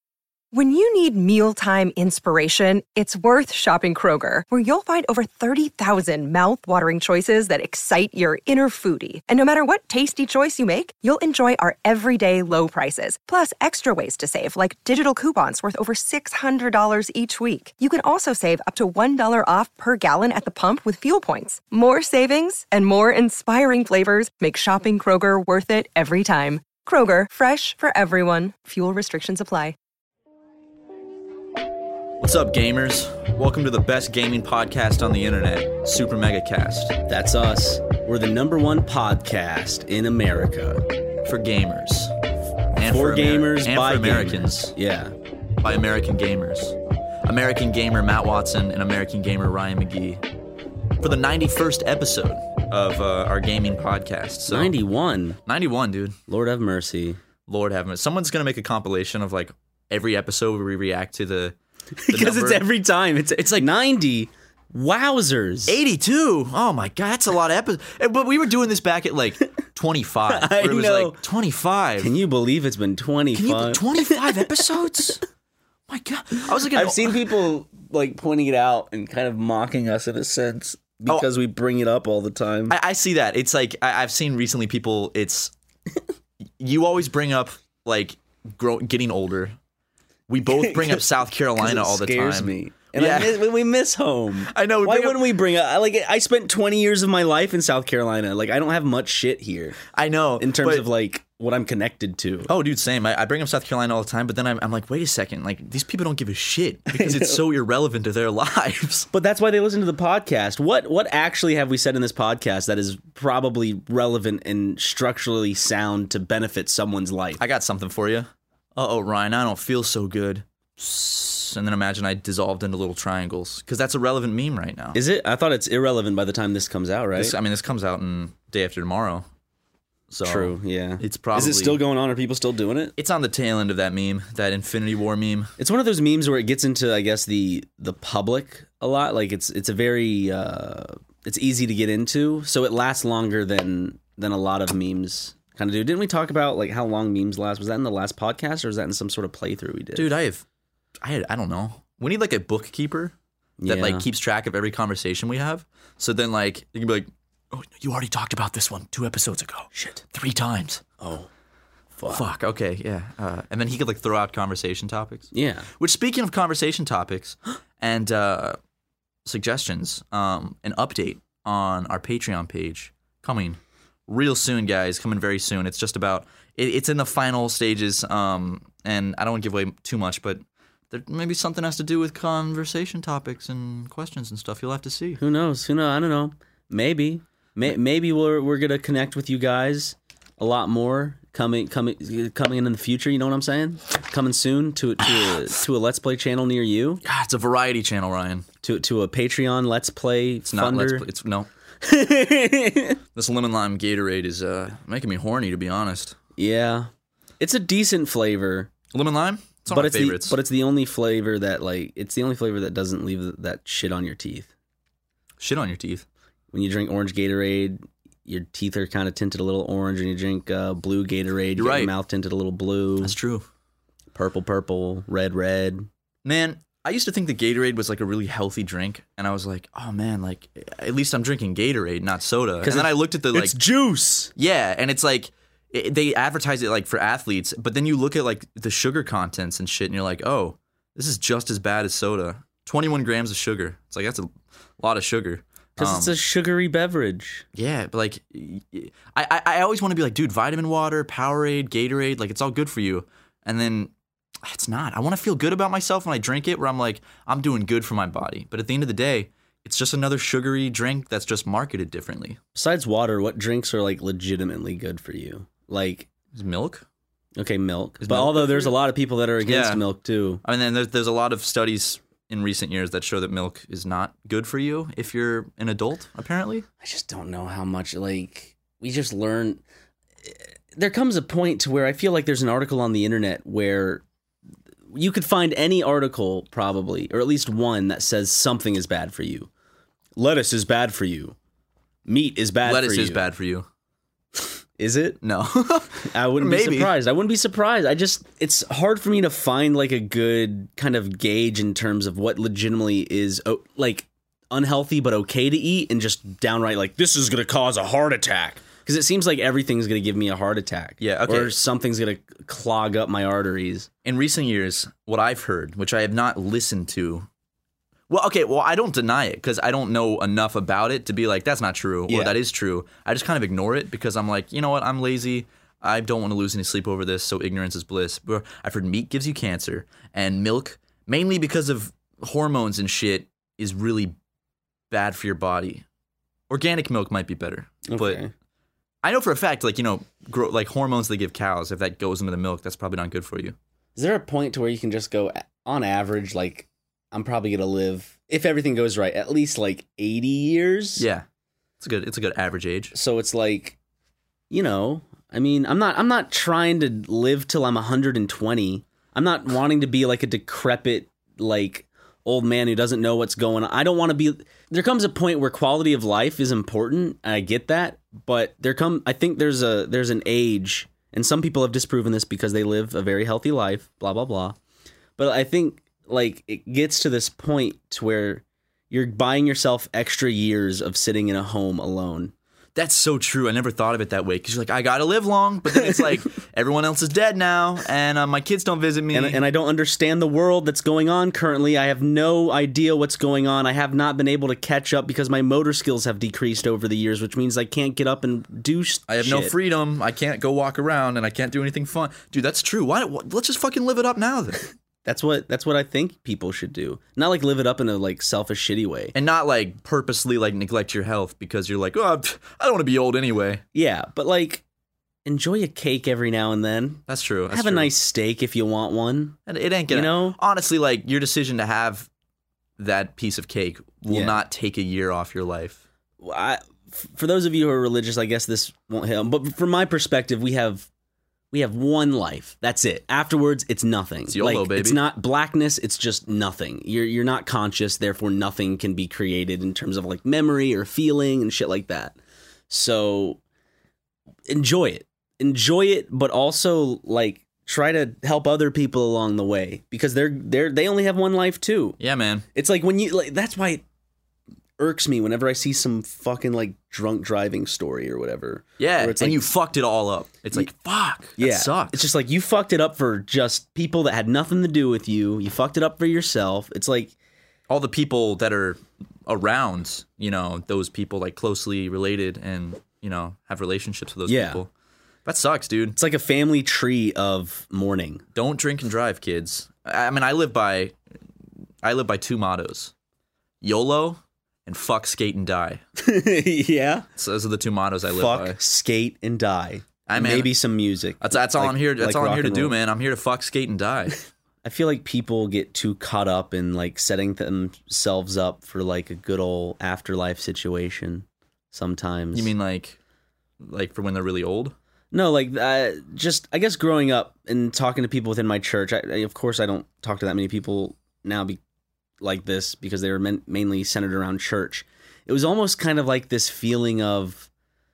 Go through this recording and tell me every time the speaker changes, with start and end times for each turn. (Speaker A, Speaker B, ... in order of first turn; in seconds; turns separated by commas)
Speaker A: 0.5-29.8, Speaker B: 32.2-37.0, Speaker C: 37.1-40.8, Speaker B: 41.2-42.1, Speaker B: 42.8-44.8, Speaker C: 42.9-45.1, Speaker B: 45.6-50.2, Speaker B: 51.0-54.8, Speaker C: 54.5-55.4, Speaker B: 55.5-56.2, Speaker C: 56.3-57.2, Speaker B: 57.5-61.6, Speaker C: 62.0-65.8, Speaker B: 62.1-62.6, Speaker B: 63.4-63.7, Speaker B: 65.7-72.1, Speaker C: 70.3-71.2, Speaker C: 72.0-74.6, Speaker B: 73.3-75.2, Speaker B: 75.9-77.3, Speaker C: 76.4-82.8, Speaker B: 82.7-85.5, Speaker B: 86.6-89.5, Speaker B: 90.3-93.5, Speaker C: 90.5-91.0, Speaker C: 91.6-99.8, Speaker B: 94.5-95.3, Speaker B: 99.9-100.9, Speaker C: 100.4-102.5, Speaker B: 102.5-109.1, Speaker C: 106.9-107.4, Speaker C: 109.1-117.4, Speaker B: 117.4-125.0, Speaker C: 124.9-127.4, Speaker B: 127.2-129.3, Speaker B: 130.1-131.8, Speaker C: 130.2-132.9, Speaker B: 133.0-135.5, Speaker C: 135.6-150.1, Speaker B: 149.9-150.4, Speaker B: 151.0-153.2, Speaker C: 153.6-154.1, Speaker B: 153.7-160.8, Speaker C: 159.7-160.0, Speaker C: 161.0-161.3, Speaker C: 162.0-162.3, Speaker B: 162.1-168.6, Speaker C: 165.3-165.7, Speaker B: 169.2-185.2, Speaker C: 185.2-197.0, Speaker B: 197.0-198.5, Speaker C: 198.6-201.1, Speaker B: 200.5-201.5, Speaker C: 201.8-203.0, Speaker B: 203.2-206.2, Speaker C: 206.4-208.7, Speaker B: 208.9-210.4, Speaker C: 209.7-214.5, Speaker B: 215.4-216.1, Speaker C: 216.5-223.2, Speaker B: 221.6-221.9, Speaker B: 223.0-223.5, Speaker C: 224.2-225.9, Speaker B: 226.2-233.6, Speaker C: 232.6-234.3, Speaker B: 234.4-246.1, Speaker C: 245.8-247.4, Speaker B: 247.6-253.9, Speaker B: 254.4-262.4, Speaker C: 262.6-266.1, Speaker B: 266.3-266.9, Speaker C: 267.4-270.4, Speaker B: 268.0-268.8, Speaker B: 269.4-269.9, Speaker B: 270.4-276.7, Speaker C: 276.8-279.6, Speaker C: 280.3-284.0, Speaker C: 284.9-289.5, Speaker C: 290.2-291.4, Speaker C: 292.1-293.3, Speaker B: 292.6-293.7, Speaker C: 294.8-295.2, Speaker B: 295.2-296.9, Speaker C: 296.1-313.9, Speaker B: 311.0-311.6, Speaker B: 314.1-317.3, Speaker B: 318.1-334.2, Speaker C: 322.1-322.4, Speaker B: 334.9-335.9, Speaker B: 336.5-338.2, Speaker C: 337.9-338.3, Speaker B: 339.0-343.6, Speaker C: 344.0-351.1, Speaker B: 351.0-351.2, Speaker B: 351.8-352.9, Speaker C: 352.9-353.8, Speaker C: 354.5-374.6, Speaker C: 375.2-382.3, Speaker B: 382.8-389.4, Speaker C: 389.1-399.5, Speaker B: 399.1-404.6, Speaker C: 405.1-409.1, Speaker B: 409.1-413.6, Speaker C: 413.7-414.6, Speaker C: 415.2-419.4, Speaker B: 417.1-417.9, Speaker B: 419.5-422.1, Speaker C: 419.9-420.4, Speaker B: 422.8-425.8, Speaker C: 424.1-424.4, Speaker C: 426.2-430.9, Speaker C: 431.5-442.2, Speaker B: 434.3-435.0, Speaker C: 442.7-443.4, Speaker C: 444.5-452.0, Speaker B: 452.0-452.4, Speaker C: 452.5-453.8, Speaker C: 454.8-459.5, Speaker B: 458.8-462.1, Speaker C: 461.4-467.1, Speaker B: 467.7-474.7, Speaker C: 474.3-474.6, Speaker B: 475.2-476.0, Speaker C: 475.9-478.2, Speaker B: 478.4-481.0, Speaker B: 481.8-482.9, Speaker B: 483.6-485.8, Speaker C: 486.0-487.1, Speaker B: 487.2-488.6, Speaker C: 488.1-492.8, Speaker B: 490.1-490.6, Speaker B: 491.2-494.2, Speaker C: 494.6-502.5, Speaker B: 502.3-503.0, Speaker B: 503.6-504.8, Speaker C: 505.1-511.6, Speaker C: 512.2-517.5